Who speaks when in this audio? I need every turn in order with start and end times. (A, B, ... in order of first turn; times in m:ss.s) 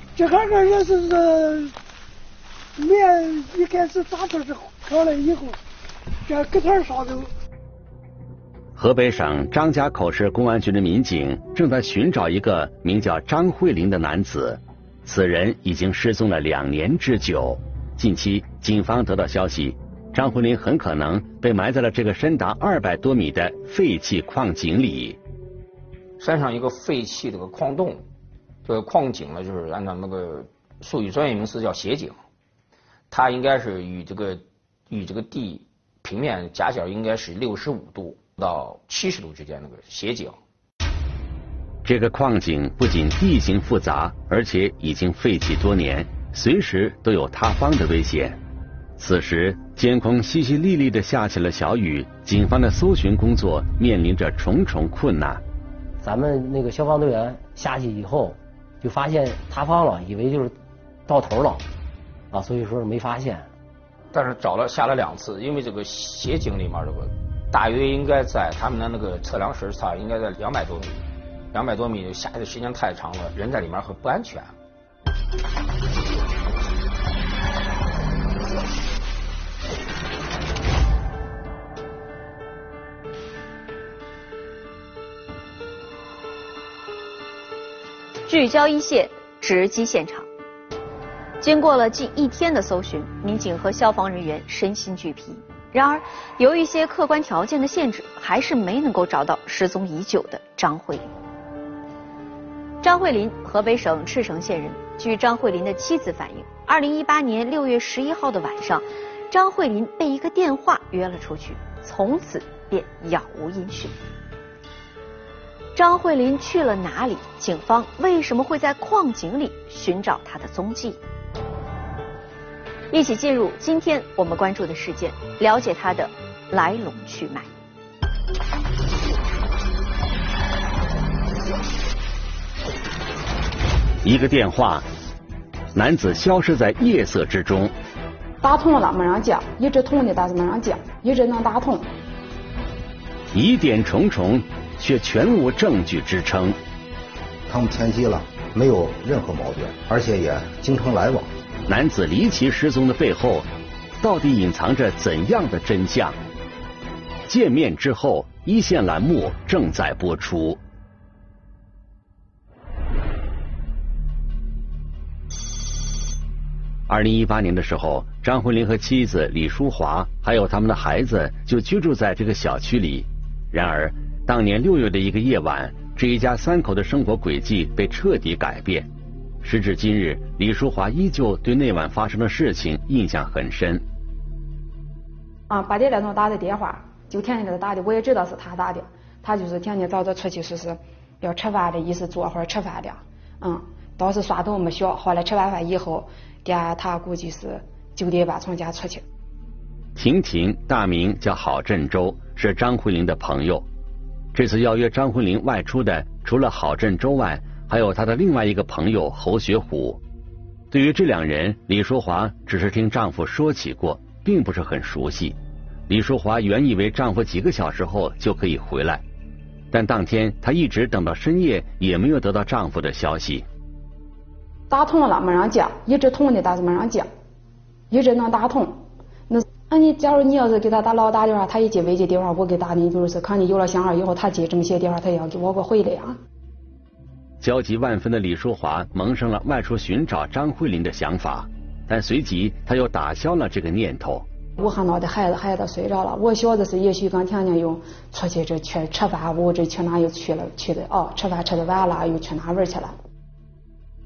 0:00.2-0:01.6 A
0:02.9-0:05.5 A
0:06.3-0:07.2 A
0:08.8-0:25.2 B
0:26.2-0:28.0 C
0:28.6-0:32.2 C
0:33.1-0:40.4 C
0:41.8-0:48.4 B
0:49.0-0:55.4 B
0:56.0-1:00.6 D
1:01.1-1:01.6 D
1:02.3-1:03.5 D
1:04.1-1:11.0 C
1:11.5-1:14.5 C
1:28.3-1:30.3 E
1:31.4-1:41.1 E
1:42.8-1:54.0 E
1:55.8-2:01.0 E
2:02.9-2:07.5 E
2:14.0-2:14.9 B
2:15.7-2:17.8 B
2:18.4-2:21.9 F
2:23.3-2:26.6 B
2:27.5-2:31.3 G
2:31.7-2:33.5 B
2:34.0-2:36.2 B
2:37.3-2:40.6 B
2:46.9-2:58.9 B
2:59.4-3:03.8 B
3:05.5-3:19.0 F
3:20.0-3:23.6 B
3:24.3-3:30.0 B
3:30.7-3:35.4 B
3:35.9-3:39.0 B
3:39.7-3:43.5 B
3:44.7-3:47.1 F
3:47.9-3:56.2 F
3:57.4-4:04.3 B
4:04.6-4:13.0 F